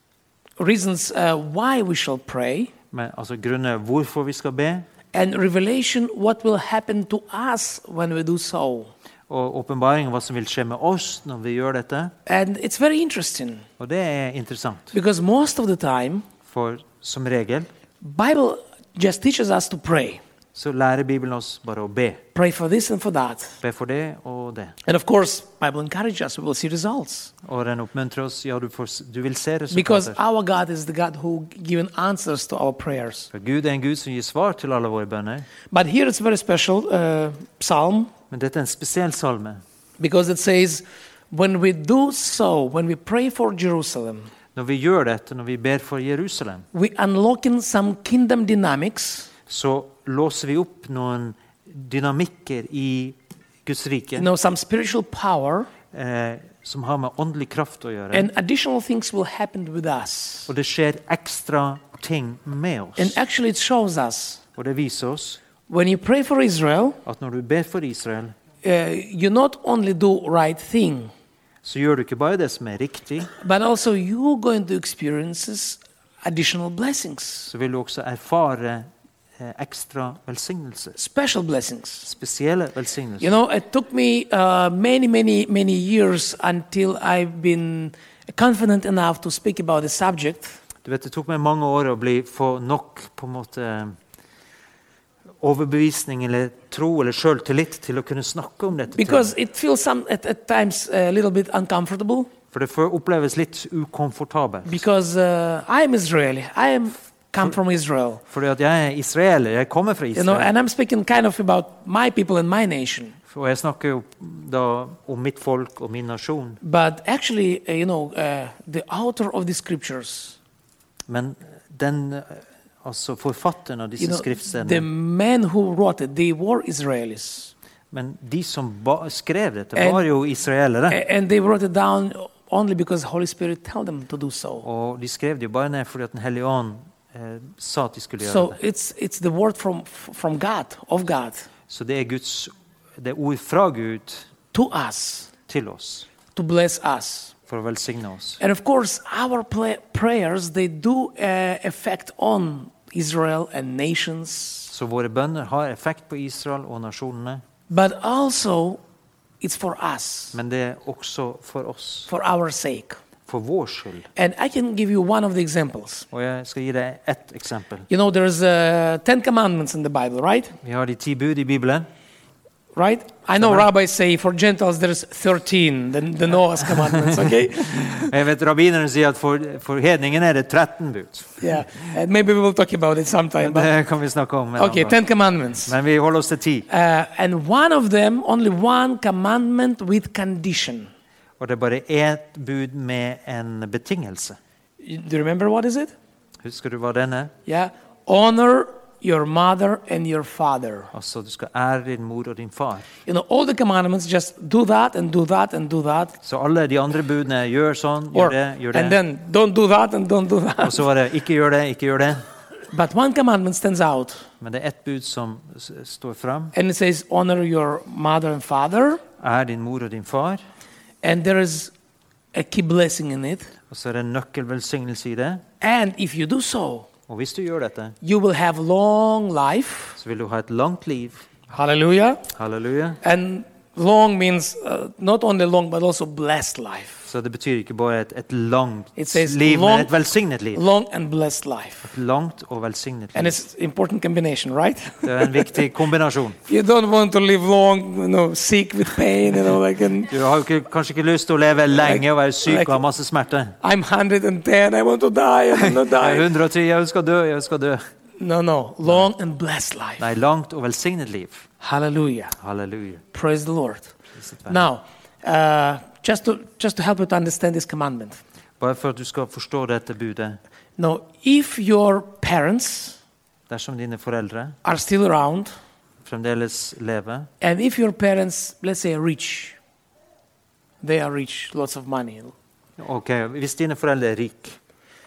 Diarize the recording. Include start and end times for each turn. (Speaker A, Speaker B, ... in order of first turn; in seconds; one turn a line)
Speaker A: 0.6-2.7
Speaker B: 2.9-4.8
Speaker A: 5.1-8.9
Speaker B: 9.3-12.1
Speaker A: 12.2-13.7
Speaker B: 13.8-14.9
Speaker A: 14.9-16.3
Speaker B: 16.4-17.7
Speaker A: 18.0-20.2
Speaker B: 20.5-22.2
Speaker A: 22.3-23.6
Speaker B: 23.6-24.8
Speaker A: 24.8-27.3
Speaker B: 27.4-30.1
Speaker A: 29.7-33.3
Speaker B: 33.3-35.5
Speaker A: 35.7-38.1
Speaker B: 38.3-39.6
Speaker A: 40.0-44.3
Speaker B: 44.5-46.6
Speaker A: 46.7-49.3
Speaker B: 49.5-54.3
Speaker A: 54.1-55.7
Speaker B: 55.9-58.3
Speaker A: 58.1-60.5
Speaker B: 60.5-63.2
Speaker A: 63.0-64.4
Speaker B: 64.5-65.4
Speaker A: 65.7-67.0
Speaker B: 67.0-68.3
Speaker A: 68.6-71.1
Speaker B: 71.6-73.3
Speaker A: 73.4-77.5
Speaker B: 77.5-81.0
Speaker A: 81.0-82.1
Speaker B: 82.0-83.3
Speaker A: 83.2-90.5
Speaker B: 90.8-93.9
Speaker B: 95.4-99.3
Speaker A: 98.9-102.3
Speaker B: 102.5-104.8
Speaker A: 104.7-108.2
Speaker B: 108.3-110.5
Speaker A: 110.1-113.2
Speaker B: 113.3-116.6
Speaker A: 116.6-120.4
Speaker B: 121.1-124.8
Speaker A: 124.0-127.5
Speaker B: 127.9-131.0
Speaker A: 129.8-130.0
Speaker A: 130.9-134.7
Speaker B: 134.6-138.6
Speaker A: 138.2-141.5
Speaker B: 141.7-144.3
Speaker A: 144.5-145.3
Speaker B: 145.5-146.1
Speaker A: 146.3-147.3
Speaker B: 147.5-148.4
Speaker A: 148.4-154.7
Speaker B: 154.7-157.4
Speaker A: 157.7-158.8
Speaker A: 159.4-160.4
Speaker B: 160.3-162.1
Speaker A: 162.1-163.0
Speaker B: 163.3-164.1
Speaker A: 164.2-166.1
Speaker B: 166.1-167.9
Speaker A: 167.9-170.6
Speaker B: 170.6-171.9
Speaker A: 172.7-178.1
Speaker B: 173.4-173.7
Speaker B: 176.8-181.4
Speaker A: 181.4-183.7
Speaker B: 183.4-185.0
Speaker A: 184.6-185.7
Speaker B: 185.7-186.7
Speaker A: 186.7-190.9
Speaker B: 191.4-194.4
Speaker A: 194.8-195.9
Speaker B: 196.4-197.3
Speaker A: 197.4-200.9
Speaker B: 200.9-202.9
Speaker A: 203.1-206.2
Speaker B: 206.2-209.0
Speaker A: 208.1-210.8
Speaker B: 210.6-212.2
Speaker A: 212.7-214.2
Speaker B: 214.4-216.5
Speaker A: 216.5-219.0
Speaker B: 219.2-220.4
Speaker A: 221.0-221.7
Speaker A: 222.3-223.5
Speaker B: 223.7-225.4
Speaker A: 225.6-226.9
Speaker B: 227.1-228.0
Speaker A: 228.0-230.0
Speaker B: 230.0-231.2
Speaker A: 231.5-232.2
Speaker B: 232.3-233.0
Speaker A: 233.0-237.0
Speaker B: 237.1-240.6
Speaker A: 238.9-239.9
Speaker A: 240.5-241.9
Speaker B: 241.8-243.4
Speaker A: 243.1-245.6
Speaker B: 245.0-246.4
Speaker A: 246.5-250.2
Speaker B: 250.1-253.6
Speaker A: 251.8-252.8
Speaker A: 253.6-256.3
Speaker B: 255.6-257.8
Speaker A: 258.2-260.1
Speaker B: 260.0-261.5
Speaker A: 261.6-262.4
Speaker B: 262.4-263.0
Speaker A: 263.1-263.9
Speaker B: 264.1-264.6
Speaker A: 264.5-268.2
Speaker B: 268.6-270.4
Speaker A: 270.8-273.0
Speaker B: 273.5-274.6
Speaker A: 274.6-275.5
Speaker B: 276.0-277.3
Speaker A: 277.4-279.6
Speaker A: 280.8-282.3
Speaker B: 282.8-284.6